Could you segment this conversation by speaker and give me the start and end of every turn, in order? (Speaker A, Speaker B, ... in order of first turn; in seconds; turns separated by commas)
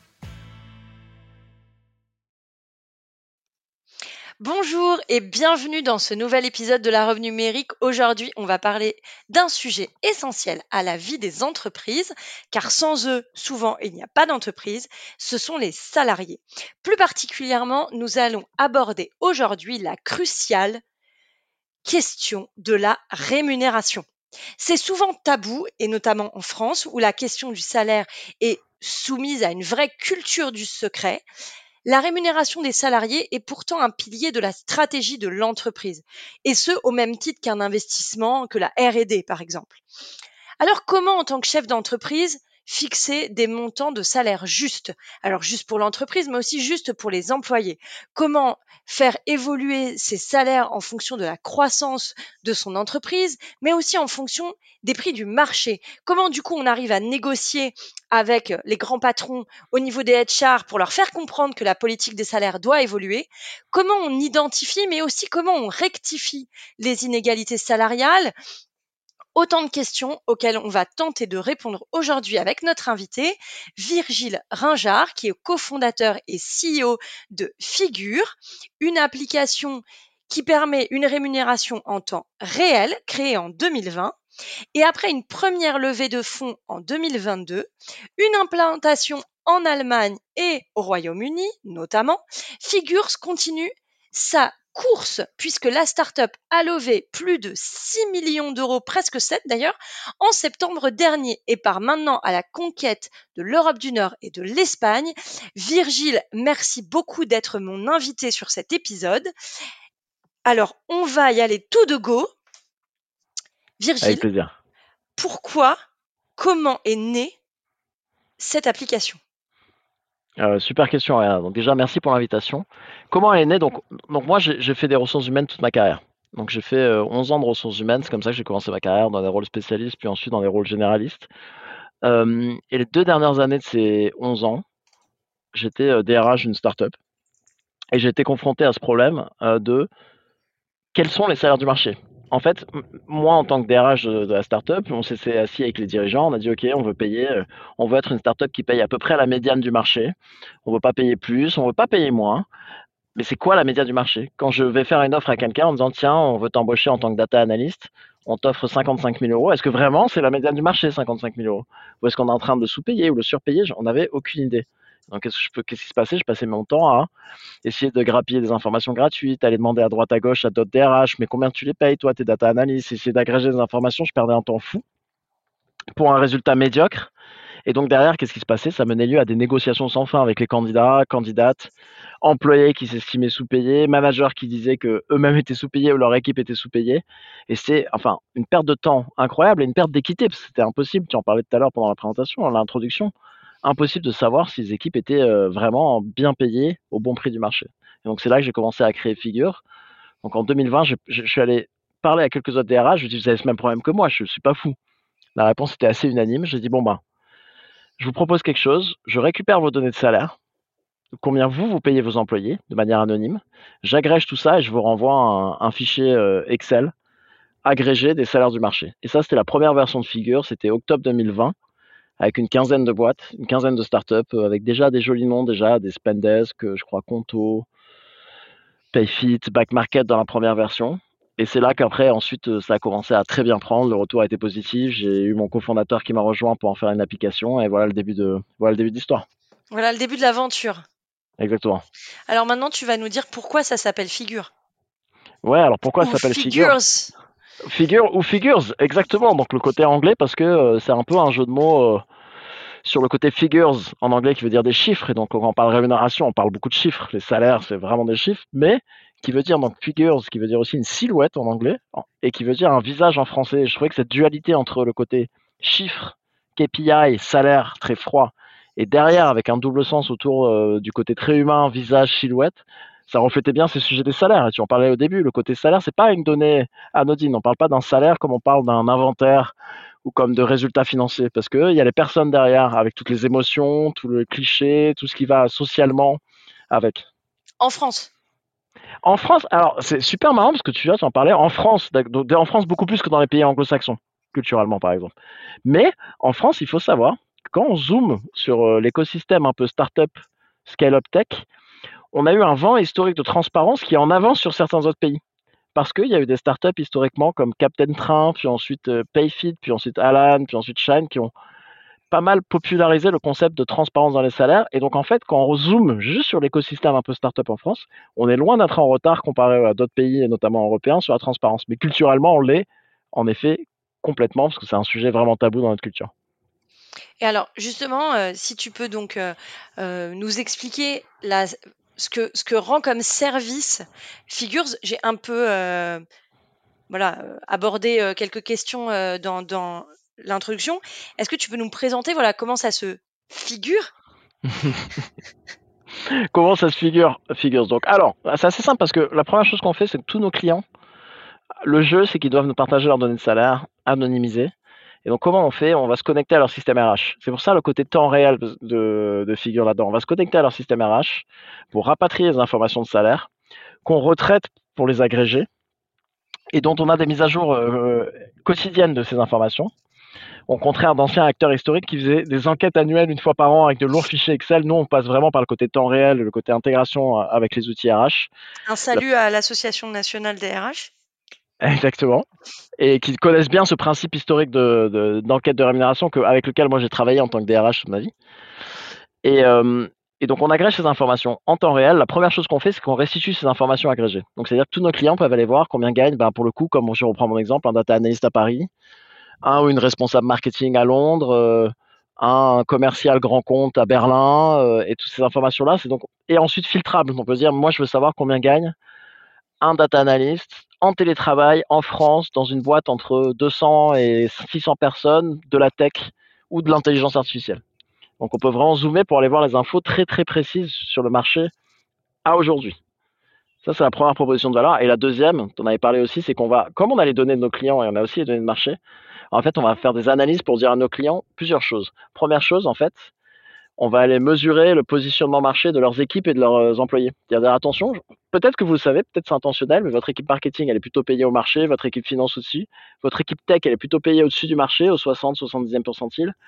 Speaker A: 4.4-20.8, Speaker A: 21.8-24.1, Speaker A: 24.6-31.2, Speaker A: 31.8-39.8, Speaker A: 40.6-68.3, Speaker A: 69.3-84.1, Speaker A: 84.8-109.3, Speaker A: 110.5-112.3, Speaker A: 113.8-114.3, Speaker B: 114.0-114.5, Speaker A: 115.2-115.8, Speaker A: 116.4-117.4, Speaker A: 118.4-119.2, Speaker B: 120.4-131.3, Speaker B: 132.0-134.6, Speaker B: 135.5-136.9, Speaker B: 137.9-139.9, Speaker B: 140.9-152.4, Speaker B: 153.1-167.1, Speaker B: 167.6-174.8, Speaker B: 175.9-177.1, Speaker B: 177.7-181.7, Speaker B: 182.2-193.1, Speaker B: 193.6-199.6, Speaker B: 200.2-204.8, Speaker B: 205.4-207.0, Speaker B: 208.0-210.3, Speaker B: 211.1-216.9, Speaker B: 217.6-221.6, Speaker B: 222.2-227.7, Speaker B: 228.9-239.2, Speaker A: 239.7-240.8, Speaker B: 241.4-241.8, Speaker A: 242.3-244.5, Speaker B: 245.4-246.8, Speaker A: 246.0-247.1, Speaker B: 247.6-252.0, Speaker B: 252.8-286.2, Speaker B: 286.7-287.1, Speaker A: 287.6-288.1, Speaker B: 289.0-295.1, Speaker B: 295.6-300.1, Speaker B: 300.7-301.5, Speaker B: 302.1-305.2, Speaker B: 305.8-311.3, Speaker B: 312.1-326.1, Speaker A: 327.2-336.0, Speaker A: 336.9-343.9, Speaker B: 344.5-344.8, Speaker B: 346.1-350.6, Speaker B: 351.6-354.5, Speaker B: 355.1-363.3, Speaker B: 363.9-365.5, Speaker B: 366.5-369.7, Speaker B: 370.5-378.3, Speaker A: 378.7-380.9, Speaker B: 381.6-382.2, Speaker B: 382.8-388.1, Speaker B: 389.2-398.7, Speaker B: 399.4-408.8, Speaker B: 409.6-417.6, Speaker B: 418.2-421.5, Speaker B: 422.2-422.8, Speaker B: 423.6-428.8, Speaker B: 429.3-433.1, Speaker B: 433.8-446.3